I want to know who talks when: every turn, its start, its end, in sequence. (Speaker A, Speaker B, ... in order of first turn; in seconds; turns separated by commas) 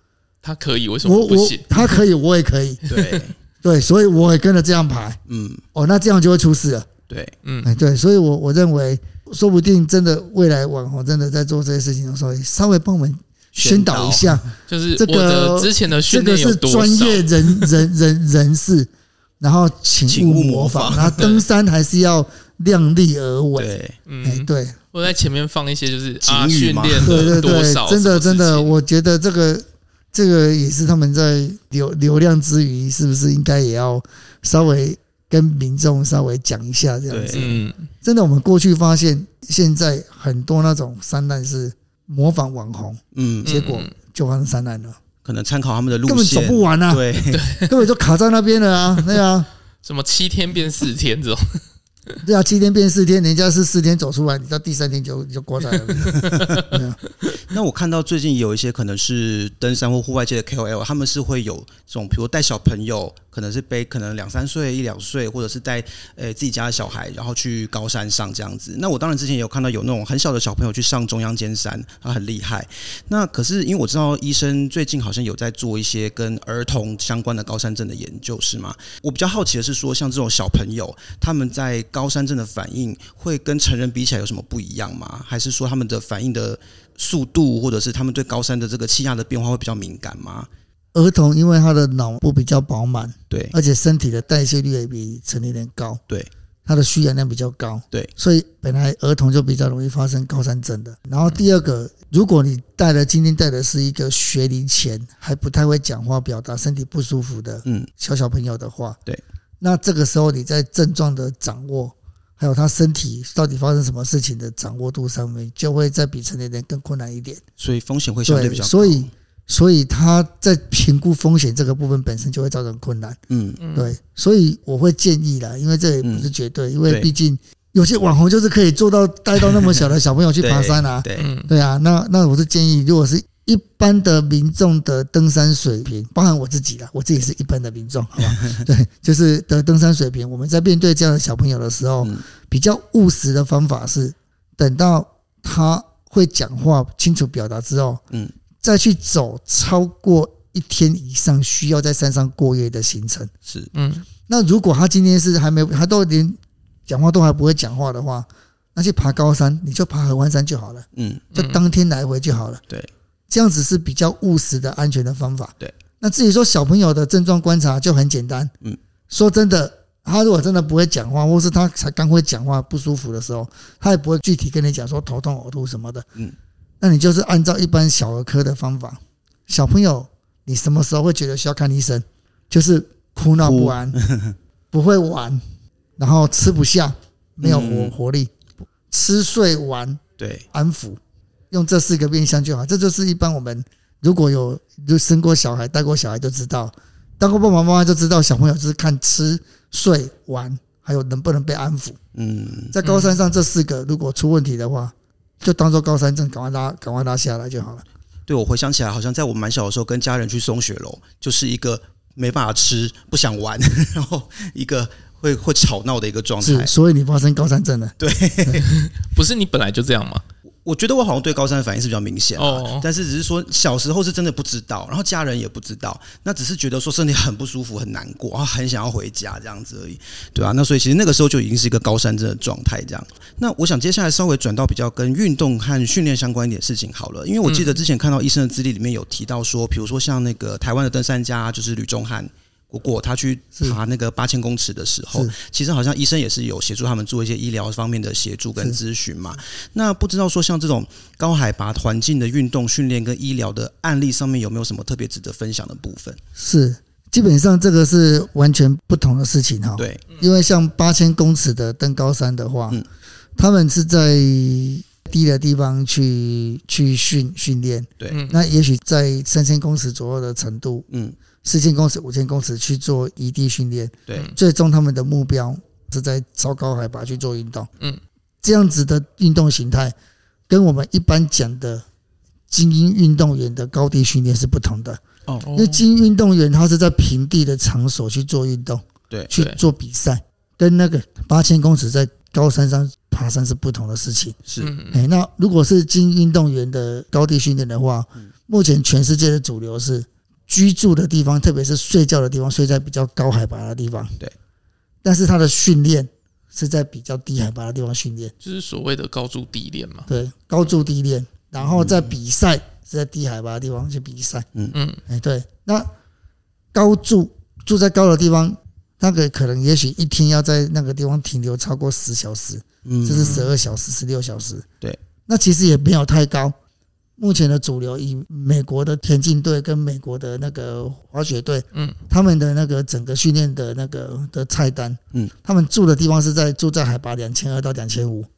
Speaker A: 0.4-2.0, Speaker B: 1.0-2.8, Speaker C: 2.9-3.4, Speaker A: 2.9-3.2, Speaker B: 3.6-5.2, Speaker C: 5.3-5.6, Speaker B: 5.7-6.9, Speaker C: 7.1-7.3, Speaker A: 7.4-7.7, Speaker B: 7.6-24.8, Speaker C: 13.6-14.5, Speaker A: 14.7-17.8, Speaker C: 20.1-21.4, Speaker C: 23.6-24.0, Speaker A: 24.1-28.7, Speaker C: 26.2-27.4, Speaker B: 27.0-45.0, Speaker C: 37.1-37.5, Speaker A: 37.3-37.9, Speaker C: 43.1-43.6, Speaker A: 43.5-43.9, Speaker C: 45.2-47.5, Speaker B: 46.1-47.0, Speaker A: 47.3-47.8, Speaker B: 47.6-49.5, Speaker A: 49.8-52.2, Speaker B: 52.2-57.0, Speaker A: 55.7-57.4, Speaker C: 56.1-56.6, Speaker C: 57.5-90.5, Speaker B: 90.9-96.0, Speaker C: 93.3-93.6, Speaker B: 96.7-109.0, Speaker B: 109.6-117.4, Speaker C: 117.6-119.1, Speaker B: 118.3-123.2, Speaker C: 123.3-123.6, Speaker A: 123.6-123.9, Speaker B: 123.7-148.0, Speaker C: 126.0-126.3, Speaker C: 126.9-127.1, Speaker C: 130.4-131.3, Speaker A: 131.2-131.5, Speaker C: 138.2-138.7, Speaker B: 148.6-153.3, Speaker C: 153.5-153.7, Speaker A: 153.7-154.1, Speaker B: 154.3-162.6, Speaker C: 160.9-161.2, Speaker A: 161.3-161.6, Speaker B: 163.3-168.5, Speaker B: 169.1-176.1, Speaker B: 176.8-184.0, Speaker C: 183.4-184.4, Speaker B: 184.7-185.4, Speaker B: 186.0-188.3, Speaker C: 187.4-187.9, Speaker B: 188.9-190.0, Speaker C: 190.2-190.4, Speaker B: 190.5-191.0, Speaker B: 191.5-202.0, Speaker C: 202.2-202.8, Speaker B: 202.7-207.8, Speaker A: 202.8-203.2, Speaker C: 208.3-216.7, Speaker B: 216.4-218.6, Speaker C: 218.0-218.7, Speaker A: 218.6-220.2, Speaker C: 220.6-256.2, Speaker A: 222.4-222.9, Speaker A: 237.5-237.8, Speaker B: 256.4-262.8, Speaker C: 259.8-260.0, Speaker B: 263.4-270.9, Speaker A: 268.1-268.4, Speaker C: 270.9-271.2, Speaker B: 271.4-277.7, Speaker B: 278.4-279.9, Speaker B: 280.5-281.9, Speaker B: 282.5-285.0, Speaker A: 285.4-285.8, Speaker B: 285.5-294.4, Speaker A: 289.3-289.6, Speaker A: 294.6-295.1, Speaker B: 294.9-304.2, Speaker B: 305.0-308.3, Speaker A: 308.4-310.1, Speaker B: 310.1-314.5, Speaker C: 311.6-312.1, Speaker A: 314.7-315.0, Speaker B: 315.1-315.9, Speaker B: 316.7-324.7, Speaker C: 322.9-323.4, Speaker A: 323.2-323.5, Speaker B: 325.3-326.6, Speaker B: 327.2-338.3